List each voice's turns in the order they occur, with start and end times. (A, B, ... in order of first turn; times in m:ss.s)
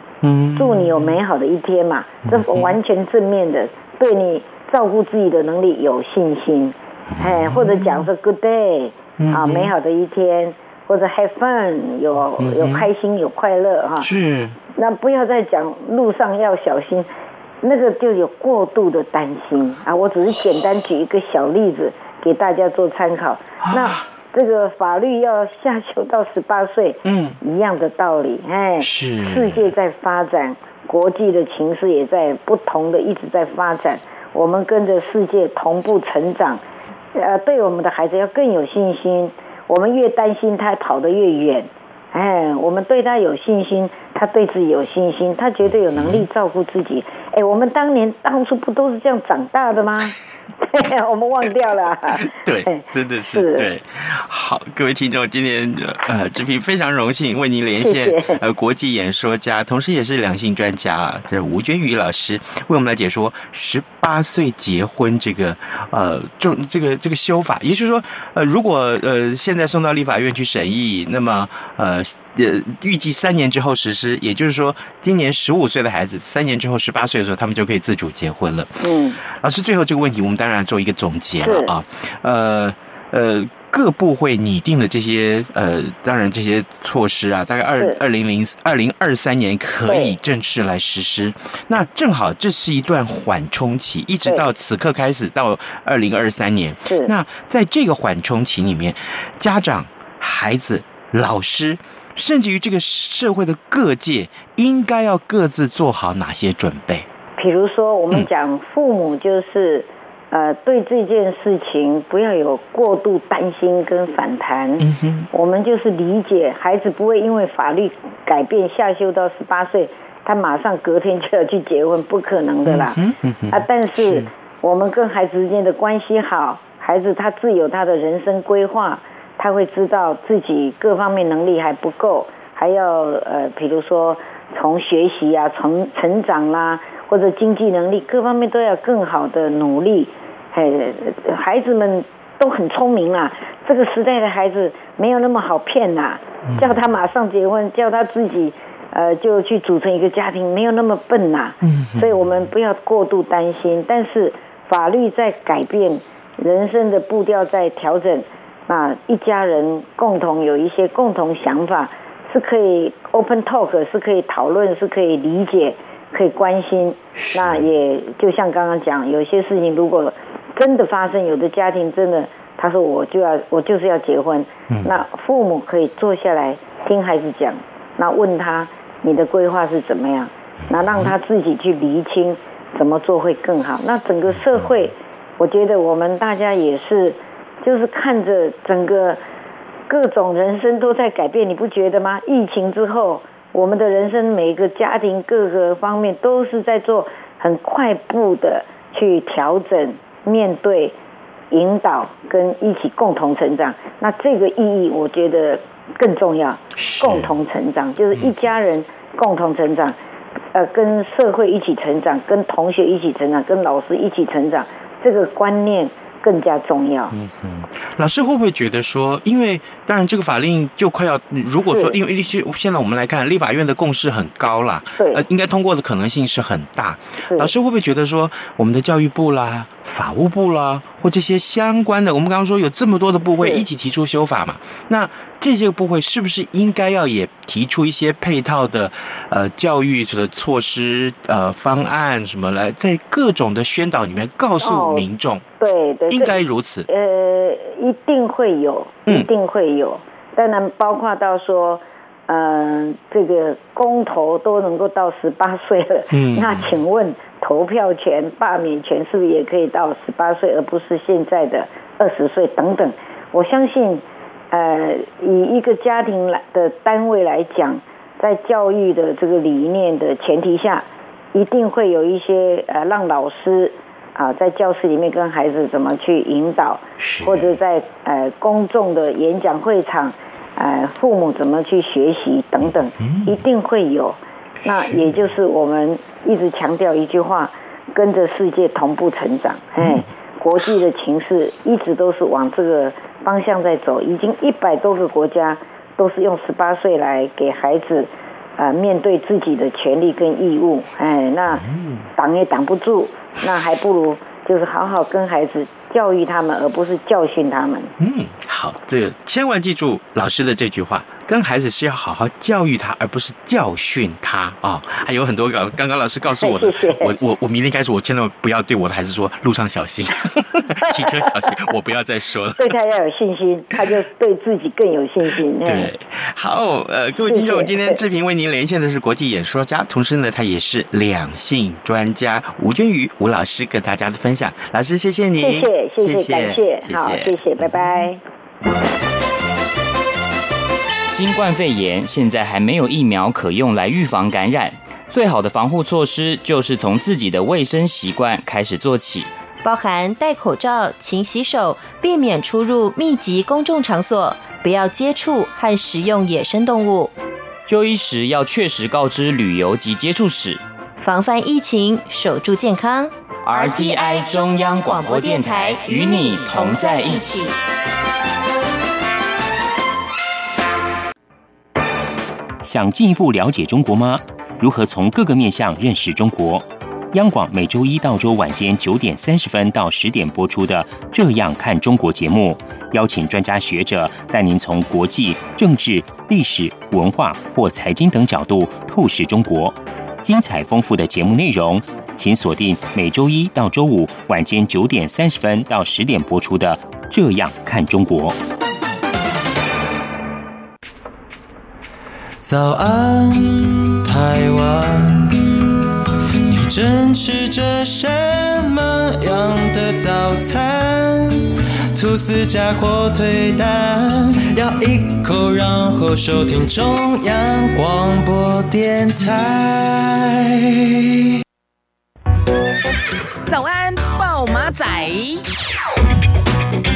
0:00.2-0:01.2 A
0:00.6-0:14.1 B
0:02.2-0:02.8 A
0:07.2-0:08.1 A
0:09.2-0:09.7 A
0:12.4-0:12.9 A
0:14.0-0:14.6 A
0:14.8-0:17.1 B
0:17.6-0:36.6 B
0:23.6-0:24.0 A
0:27.0-0:27.4 A
0:28.8-0:29.7 A
0:37.2-0:53.7 B
0:46.0-0:46.3 A
0:52.1-1:47.1 A
0:57.8-0:58.4 B
1:18.8-1:19.2 B
1:21.4-1:21.7 B
1:29.9-1:30.2 B
1:36.9-1:37.1 B
1:47.4-2:03.0 B
1:54.8-1:55.3 A
2:02.6-2:04.3 A
2:03.5-3:09.2 B
2:26.5-2:26.8 A
2:31.6-2:32.2 A
2:47.2-2:47.6 A
3:09.9-3:21.0 B
3:21.5-3:30.0 B
3:26.8-3:27.3 A
3:30.5-3:37.2 B
3:37.1-4:05.4 A
3:41.7-3:42.0 B
3:45.0-3:45.2 B
3:47.2-3:47.5 B
3:53.4-3:53.6 B
4:04.6-4:05.1 B
4:05.6-4:06.4 B
4:06.1-4:06.9 A
4:06.9-5:01.6 B
4:16.1-4:16.8 A
4:37.0-4:37.6 A
4:43.0-4:43.4 A
4:44.7-4:45.2 A
4:49.8-4:50.0 A
5:01.5-5:02.0 A
5:02.2-5:07.9 B
5:08.0-5:22.8 A
5:16.4-5:17.1 B
5:20.9-5:21.6 B
5:22.6-5:25.9 B
5:25.6-5:37.8 A
5:27.3-5:28.0 B
5:35.4-5:38.2 B
5:41.1-5:49.3 C
5:49.6-5:57.1 D
5:57.7-6:00.6 C
6:01.0-6:07.5 D
6:03.4-6:07.5 C
6:12.6-6:38.4 E
6:42.4-6:45.6 F
6:46.5-7:01.0 F
7:03.5-7:05.4 G